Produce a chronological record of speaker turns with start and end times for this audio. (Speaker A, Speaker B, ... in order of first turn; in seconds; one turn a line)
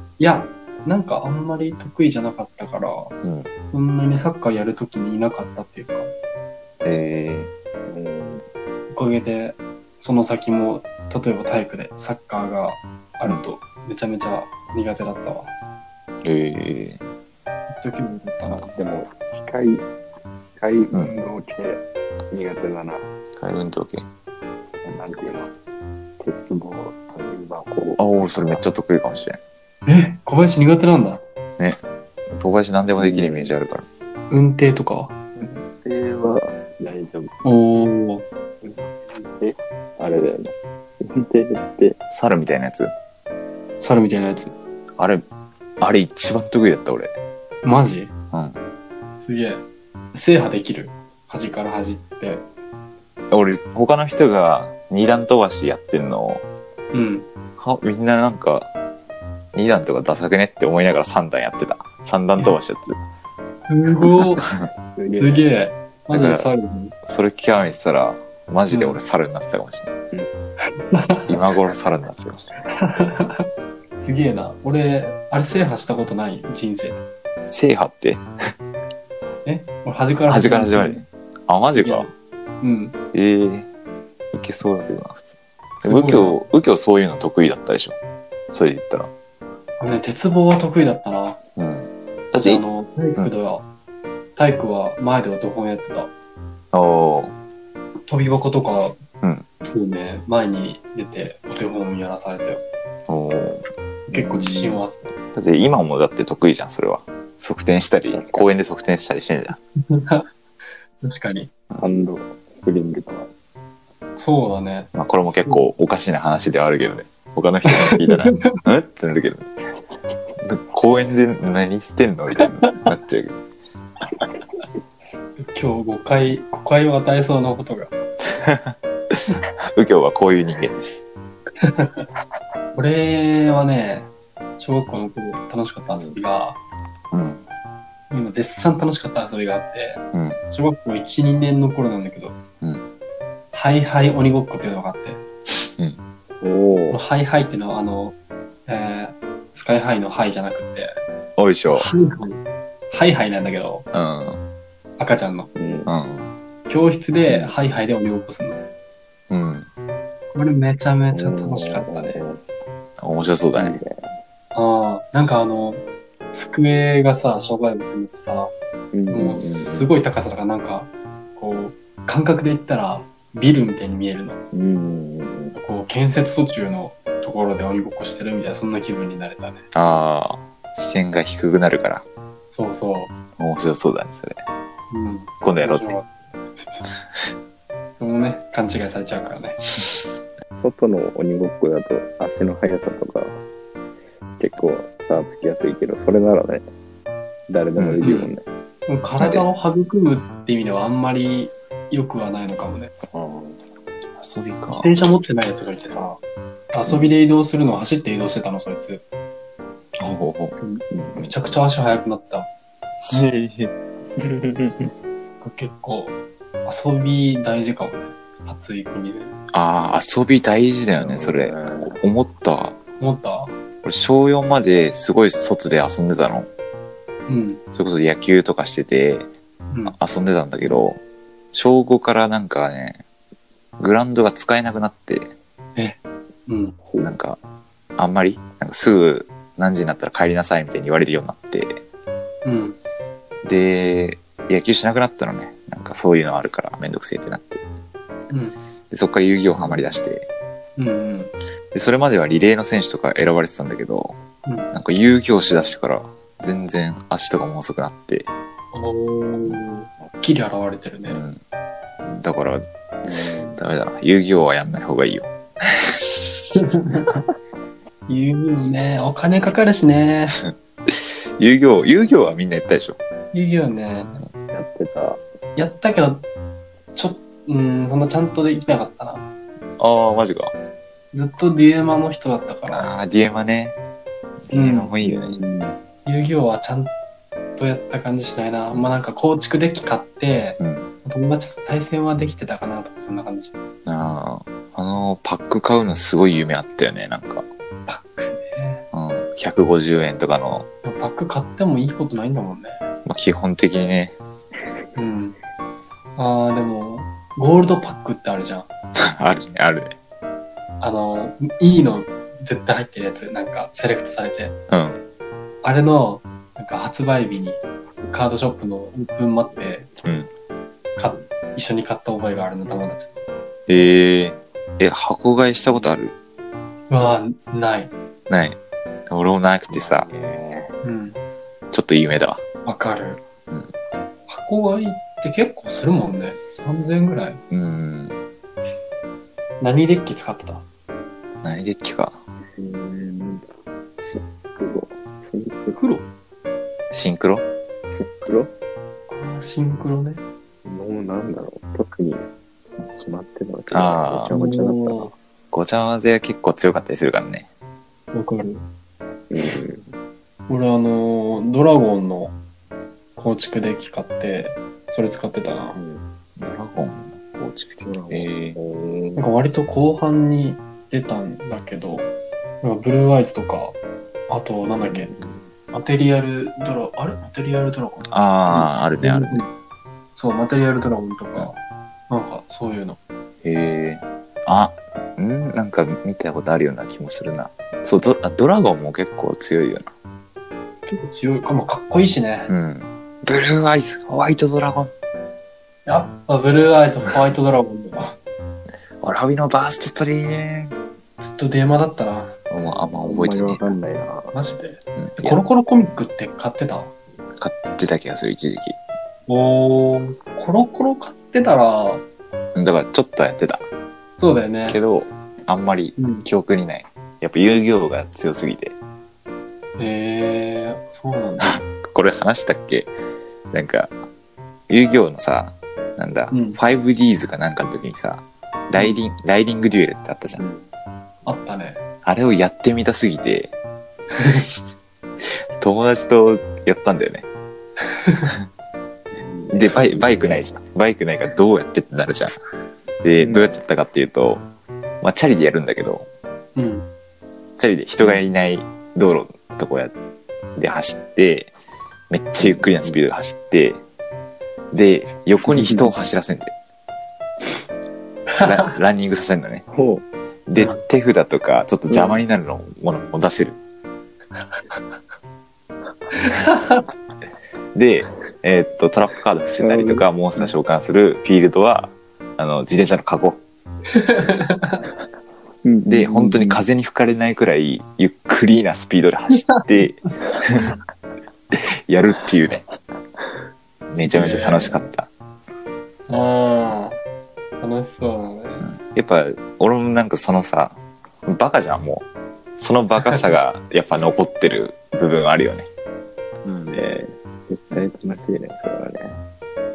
Speaker A: 0.2-3.1
Speaker B: 3.2-3.5
Speaker A: 3.7-6.1
Speaker B: 6.8-7.5
Speaker C: 7.9-8.4
Speaker A: 8.9-15.5
Speaker B: 16.2-17.0
Speaker A: 17.7-18.7
Speaker C: 18.4-19.8
Speaker C: 20.6-23.0
Speaker B: 23.4-24.1
Speaker C: 24.8-25.5
Speaker C: 26.2-28.6
Speaker B: 28.0-29.4
Speaker A: 29.9-31.2
Speaker B: 32.4-33.8
Speaker C: 33.0-33.5
Speaker A: 34.3-35.1
Speaker C: 35.4-37.3
Speaker A: 37.4-38.2
Speaker C: 38.6-42.0
Speaker B: 42.1-42.9
Speaker A: 43.8-44.5
Speaker B: 45.0-45.2
Speaker B: 45.8-47.1
Speaker A: 47.6-48.1
Speaker B: 48.3-48.6
Speaker A: 49.2-52.4
Speaker B: 53.3-56.4
Speaker A: 56.9-57.3
Speaker B: 57.6-58.7
Speaker B: 59.5-63.0
Speaker A: 63.7-64.5
Speaker B: 64.4-64.7
Speaker C: 65.0-65.4
Speaker A: 65.2-66.9
Speaker B: 66.1-66.5
Speaker B: 67.0-69.9
Speaker A: 68.7-69.0
Speaker A: 70.9-71.3
Speaker B: 71.3-72.5
Speaker A: 72.7-73.4
Speaker A: 74.0-77.0
Speaker B: 77.5-78.2
Speaker A: 79.4-81.0
Speaker B: 80.3-82.1
Speaker A: 81.7-82.9
Speaker B: 83.1-83.7
Speaker B: 84.3-88.0
Speaker A: 85.8-86.4
Speaker B: 88.5-89.1
Speaker A: 89.8-91.4
Speaker B: 91.6-92.6
Speaker A: 92.4-93.7
Speaker A: 94.3-96.1
Speaker B: 96.7-97.3
Speaker A: 98.0-99.0
Speaker A: 99.7-102.6
Speaker B: 103.1-104.8
Speaker A: 104.1-105.1
Speaker B: 105.3-109.6
Speaker C: 108.1-108.5
Speaker A: 109.9-110.2
Speaker A: 111.0-111.5
Speaker C: 111.7-113.3
Speaker A: 114.2-115.7
Speaker B: 114.9-119.5
Speaker B: 120.4-123.4
Speaker A: 122.4-122.7
Speaker A: 125.4-127.9
Speaker B: 128.4-128.7
Speaker B: 129.7-131.0
Speaker A: 131.6-132.1
Speaker A: 132.7-136.6
Speaker C: 135.9-136.2
Speaker B: 137.1-137.4
Speaker A: 138.1-142.3
Speaker B: 140.1-140.4
Speaker A: 143.5-145.2
Speaker C: 146.4-147.0
Speaker A: 146.9-150.9
Speaker B: 151.4-151.9
Speaker A: 151.7-153.8
Speaker B: 153.9-154.4
Speaker A: 155.0-155.5
Speaker C: 155.6-155.9
Speaker B: 155.8-156.3
Speaker A: 156.7-158.6
Speaker C: 157.3-157.5
Speaker B: 159.3-159.7
Speaker A: 160.3-162.2
Speaker C: 161.1-162.4
Speaker B: 163.0-163.8
Speaker C: 163.5-164.1
Speaker A: 164.5-165.8
Speaker A: 166.3-168.5
Speaker C: 168.9-169.9
Speaker A: 169.1-174.4
Speaker C: 174.5-175.6
Speaker A: 175.5-179.6
Speaker B: 179.7-182.0
Speaker A: 182.5-183.1
Speaker B: 183.4-184.4
Speaker A: 184.9-186.8
Speaker B: 185.4-186.0
Speaker A: 188.0-189.6
Speaker C: 190.6-193.4
Speaker C: 194.4-196.7
Speaker C: 197.5-198.4
Speaker B: 197.8-198.0
Speaker A: 198.0-198.3
Speaker A: 198.9-202.9
Speaker B: 199.2-199.4
Speaker C: 203.1-203.6
Speaker B: 204.2-205.0
Speaker A: 204.7-206.2
Speaker A: 206.7-209.0
Speaker B: 210.0-210.5
Speaker A: 210.6-212.5
Speaker C: 210.9-211.3
Speaker B: 213.0-213.7
Speaker C: 214.2-214.9
Speaker A: 215.4-219.3
Speaker B: 219.5-222.8
Speaker C: 221.0-222.0
Speaker A: 223.0-223.5
Speaker B: 223.8-226.5
Speaker A: 227.3-227.6
Speaker B: 227.7-229.3
Speaker A: 229.7-230.0
Speaker B: 229.9-231.0
Speaker B: 231.5-233.0
Speaker B: 233.8-235.3
Speaker A: 235.8-236.8
Speaker C: 236.8-237.1
Speaker B: 237.0-237.4
Speaker B: 238.0-241.8
Speaker A: 242.4-242.8
Speaker B: 243.4-247.6
Speaker A: 248.3-248.6
Speaker B: 248.9-250.3
Speaker C: 249.5-250.0
Speaker A: 250.8-251.3
Speaker B: 251.7-254.2
Speaker A: 254.4-254.7
Speaker B: 254.7-258.3
Speaker A: 258.7-261.2
Speaker B: 261.1-261.4
Speaker B: 262.0-262.6
Speaker C: 263.1-263.6
Speaker B: 263.5-265.3
Speaker A: 266.6-267.1
Speaker A: 268.1-270.4
Speaker B: 270.4-273.0
Speaker A: 273.3-274.1
Speaker C: 274.5-275.2
Speaker A: 275.6-276.2
Speaker A: 276.9-279.2
Speaker B: 279.8-280.5
Speaker A: 281.1-282.9
Speaker B: 282.7-283.8
Speaker B: 284.4-285.4
Speaker A: 284.5-284.9
Speaker C: 285.0-285.8
Speaker A: 286.1-286.9
Speaker A: 287.6-293.5
Speaker B: 290.6-290.9
Speaker B: 293.9-297.4
Speaker A: 297.9-298.8
Speaker B: 298.9-300.7
Speaker A: 300.8-302.8
Speaker B: 303.1-304.1
Speaker A: 304.9-305.4
Speaker A: 306.1-308.7
Speaker B: 309.0-309.9
Speaker A: 310.8-314.5
Speaker B: 314.7-315.0
Speaker A: 315.6-319.9
Speaker B: 320.0-320.3
Speaker A: 321.0-323.2
Speaker B: 323.7-326.1
Speaker A: 326.9-327.9
Speaker B: 328.3-328.6
Speaker B: 329.1-330.1
Speaker C: 329.7-330.7
Speaker A: 330.8-331.2
Speaker B: 331.7-332.4
Speaker A: 332.6-333.2
Speaker A: 334.3-337.4
Speaker B: 337.5-338.1
Speaker A: 339.6-340.6
Speaker B: 341.4-342.2
Speaker C: 342.6-343.4
Speaker C: 344.0-345.8
Speaker A: 345.7-346.1
Speaker B: 346.9-347.4
Speaker C: 347.9-348.5
Speaker A: 349.1-350.2
Speaker C: 350.6-352.2
Speaker C: 352.8-355.1
Speaker B: 353.7-354.3
Speaker A: 354.3-355.1
Speaker B: 355.5-357.5
Speaker A: 358.1-358.6
Speaker C: 359.3-359.9
Speaker A: 360.5-362.3
Speaker A: 363.1-365.8
Speaker C: 365.7-366.0
Speaker B: 366.4-368.6
Speaker C: 367.8-369.3
Speaker A: 369.1-372.1
Speaker A: 372.6-373.8
Speaker A: 374.3-375.1
Speaker C: 374.8-375.5
Speaker A: 375.7-379.5
Speaker B: 378.1-379.5
Speaker A: 380.1-381.6
Speaker A: 382.1-383.0
Speaker B: 383.4-389.9
Speaker A: 390.9-392.5
Speaker B: 392.5-394.9
Speaker A: 395.9-398.1
Speaker B: 399.0-400.7
Speaker A: 401.2-402.3
Speaker B: 402.5-403.7
Speaker C: 402.9-404.3
Speaker A: 404.3-406.9
Speaker B: 405.0-405.4
Speaker B: 407.4-408.8
Speaker A: 409.3-412.0
Speaker B: 412.5-413.6
Speaker A: 414.2-414.8
Speaker B: 414.7-418.8
Speaker A: 416.0-416.3
Speaker A: 419.8-421.6
Speaker B: 421.4-422.9
Speaker B: 423.5-423.9
Speaker B: 424.7-430.4
Speaker A: 426.3-426.6
Speaker C: 430.4-430.7
Speaker A: 431.2-431.8
Speaker B: 432.0-433.5
Speaker A: 434.2-434.4
Speaker B: 435.6-437.3
Speaker C: 439.1-440.4
Speaker B: 439.5-442.4
Speaker B: 443.0-444.4
Speaker C: 443.2-443.5
Speaker B: 445.0-446.1
Speaker A: 446.6-446.9
Speaker B: 447.6-449.9
Speaker C: 448.0-448.2
Speaker B: 450.6-451.5
Speaker B: 452.1-453.8
Speaker C: 452.4-453.0
Speaker B: 454.7-456.5
Speaker C: 455.5-455.9
Speaker B: 458.4-459.6
Speaker C: 459.7-460.0
Speaker B: 460.5-463.6
Speaker A: 460.6-460.8
Speaker C: 461.9-462.2
Speaker A: 466.2-466.8
Speaker B: 467.7-473.4
Speaker C: 469.6-470.5
Speaker A: 473.9-474.8
Speaker C: 475.6-476.6
Speaker B: 475.9-480.7
Speaker A: 479.3-479.7
Speaker B: 481.5-482.6
Speaker B: 483.9-485.1
Speaker A: 484.1-484.8
Speaker A: 486.1-487.0
Speaker A: 487.6-488.6
Speaker B: 488.6-492.1
Speaker B: 492.6-495.7
Speaker C: 496.4-499.2